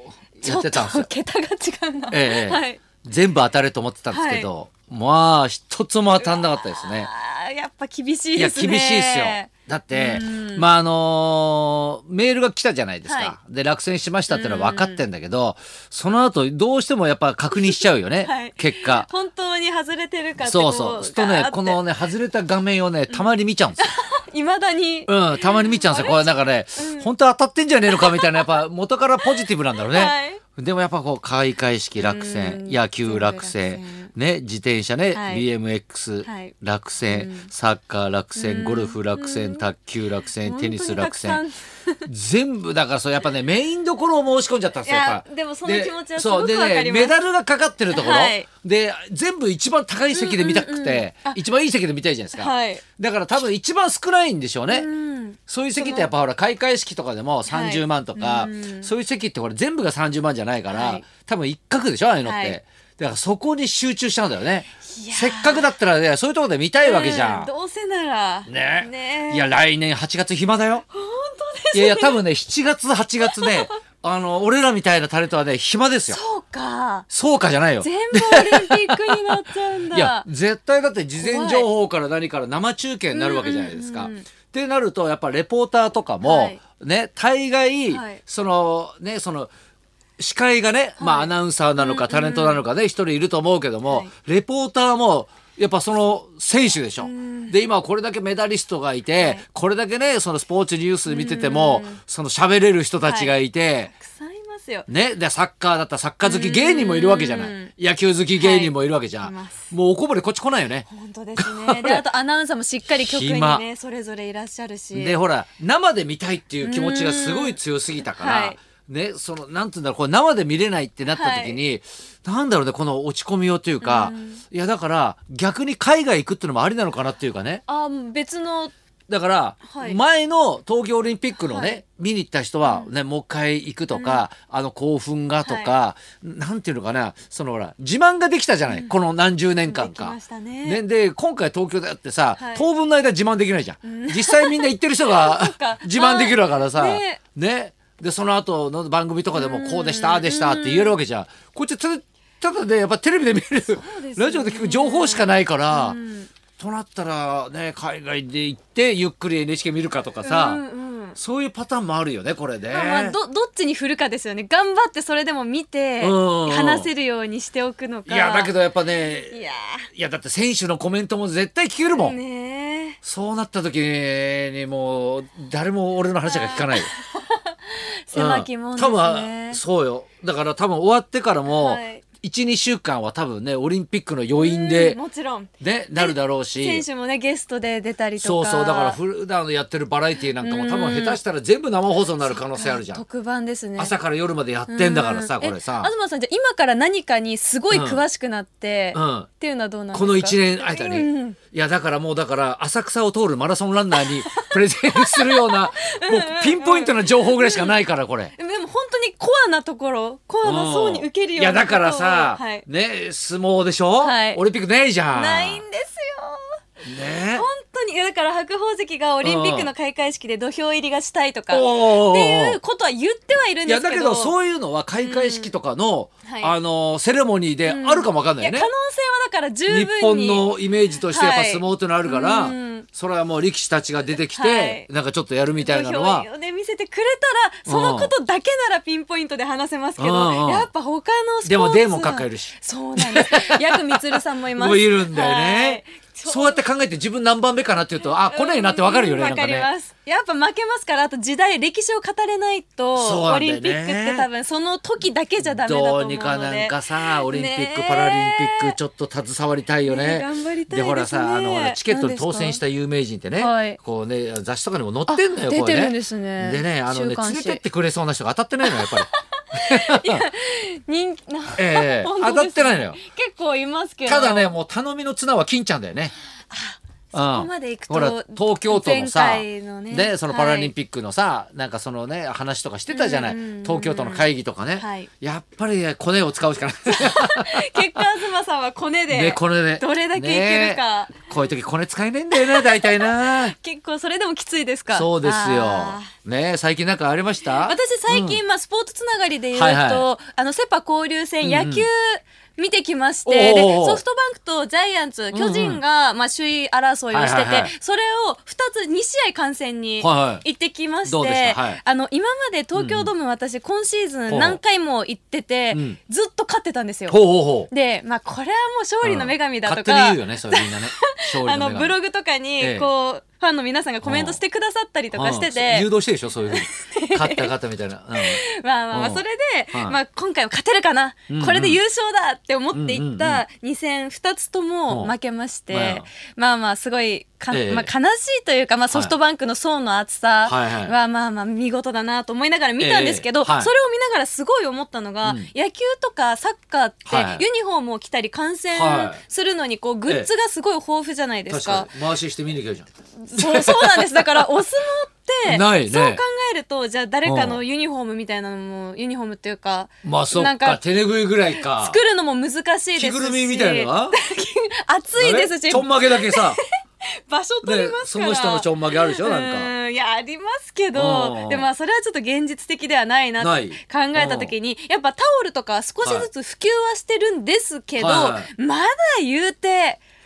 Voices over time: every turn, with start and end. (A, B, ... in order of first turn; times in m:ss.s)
0:00.4-0:01.1 A
0:00.4-0:02.8 B
0:02.1-0:07.1 A
0:04.1-0:04.5 B
0:06.2-0:10.7 B
0:08.3-0:19.1 A
0:13.0-0:13.4 B
0:14.3-0:15.0 B
0:17.5-0:21.8 B
0:20.4-0:23.8 A
0:23.8-0:27.1 B
0:25.1-0:41.4 A
0:27.9-0:28.6 B
0:29.2-0:30.4 B
0:32.0-0:34.1 B
0:35.1-0:35.5 B
0:36.2-0:36.6 B
0:37.1-0:37.5 B
0:38.4-0:39.7 B
0:40.4-0:42.0 B
0:42.1-0:54.9 A
0:44.8-0:47.2 B
0:47.9-0:48.5 B
0:50.1-0:51.4 B
0:52.4-0:52.8 B
0:54.7-0:56.1 B
0:55.5-1:07.5 A
0:57.5-0:58.9 B
1:00.7-1:01.1 B
1:02.2-1:02.6 B
1:05.0-1:05.7 B
1:06.8-1:09.5 B
1:08.5-1:10.8 A
1:10.9-1:12.2 B
1:11.7-1:16.2 A
1:13.2-1:13.8 B
1:16.1-1:17.1 B
1:17.1-1:29.5 A
1:17.8-1:20.2 B
1:21.2-1:21.7 B
1:23.1-1:24.2 B
1:26.2-1:26.6 B
1:27.9-1:28.2 B
1:30.2-1:43.9 A
1:31.0-1:32.6 B
1:33.8-1:34.1 B
1:37.0-1:37.5 B
1:39.2-1:39.4 B
1:41.1-1:42.0 B
1:43.0-1:43.3 B
1:43.9-1:44.9 B
1:44.9-1:50.8 A
1:46.2-1:47.7 B
1:48.4-1:49.7 B
1:50.9-1:55.2 B
1:51.4-1:52.1 A
1:53.0-1:53.6 A
1:54.9-2:07.6 A
1:56.6-1:57.6 B
1:58.1-1:58.6 B
2:01.1-2:01.6 B
2:03.8-2:04.4 B
2:07.7-2:08.7 B
2:09.1-2:36.0 A
2:09.7-2:10.0 B
2:11.4-2:11.8 B
2:12.6-2:12.9 B
2:13.9-2:14.2 B
2:15.4-2:15.7 B
2:18.7-2:19.0 B
2:19.7-2:20.8 B
2:22.4-2:22.7 B
2:23.8-2:27.2 B
2:29.3-2:31.0 B
2:33.7-2:36.3 B
2:36.6-2:40.6 A
2:40.2-2:41.2 B
2:41.2-2:43.2 A
2:42.7-2:48.5 B
2:46.0-2:46.9 A
2:48.1-2:49.4 A
2:49.1-2:49.9 B
2:49.9-2:52.2 A
2:51.9-2:53.0 B
2:53.0-2:56.9 A
2:56.2-2:59.6 B
2:58.1-3:05.0 A
3:01.5-3:02.0 B
3:04.4-3:09.0 B
3:05.6-3:06.8 A
3:08.2-3:13.0 A
3:10.4-3:11.2 B
3:12.2-3:13.9 B
3:13.8-3:15.9 A
3:14.7-3:21.4 B
3:17.7-3:18.0 A
3:18.9-3:19.3 A
3:19.9-3:28.3 A
3:23.9-3:27.8 B
3:28.4-3:32.7 B
3:30.4-3:35.6 A
3:34.0-3:34.4 B
3:35.1-3:36.6 B
3:36.8-3:37.5 A
3:37.3-3:44.4 B
3:39.2-3:39.7 A
3:41.5-3:42.6 A
3:43.6-3:48.7 A
3:45.0-3:45.5 B
3:46.2-3:46.5 B
3:47.6-3:52.9 B
3:49.7-3:56.3 A
3:54.4-3:54.9 B
3:55.6-4:06.6 B
3:57.7-3:58.1 A
4:00.0-4:00.7 A
4:01.4-4:04.0 A
4:04.5-4:09.7 A
4:08.2-4:18.8 B
4:13.0-4:14.3 A
4:15.4-4:30.2 A
4:19.8-4:22.6 B
4:23.4-4:23.8 B
4:25.1-4:27.6 B
4:28.6-4:34.5 B
4:31.6-4:33.0 A
4:34.1-4:36.1 A
4:36.5-4:40.7 B
4:37.1-4:47.9 A
4:42.9-4:44.2 B
4:44.8-4:45.1 B
4:46.9-4:51.5 B
4:49.1-4:53.5 A
4:52.3-4:56.1 B
4:54.9-4:58.4 A
4:57.5-5:25.9 B
4:59.5-5:00.1 A
5:01.4-5:01.9 A
5:03.2-5:04.0 A
5:05.3-5:05.8 A
5:07.1-5:07.7 A
5:10.0-5:10.4 A
5:11.0-5:11.8 A
5:12.8-5:13.1 A
5:14.3-5:14.6 A
5:15.7-5:16.0 A
5:17.1-5:17.7 A
5:19.0-5:21.9 A
5:22.6-5:22.9 A
5:24.0-5:24.4 A
5:25.1-5:29.2 A
5:26.5-5:27.5 B
5:28.2-5:51.9 B
5:31.3-5:31.8 A
5:32.7-5:33.4 A
5:35.7-5:36.0 A
5:37.5-5:37.9 A
5:40.4-5:41.0 A
5:42.8-5:43.7 A
5:45.2-5:45.5 A
5:47.1-5:47.4 A
5:48.7-5:49.2 A
5:51.5-5:54.4 A
5:53.2-6:00.8 B
5:55.4-5:56.2 A
5:57.2-5:57.6 A
6:00.0-6:02.0 A
6:01.5-6:20.0 B
6:03.0-6:04.2 A
6:05.2-6:06.6 A
6:07.6-6:09.7 A
6:10.9-6:11.7 A
6:13.4-6:14.5 A
6:16.0-6:16.3 A
6:18.0-6:18.5 A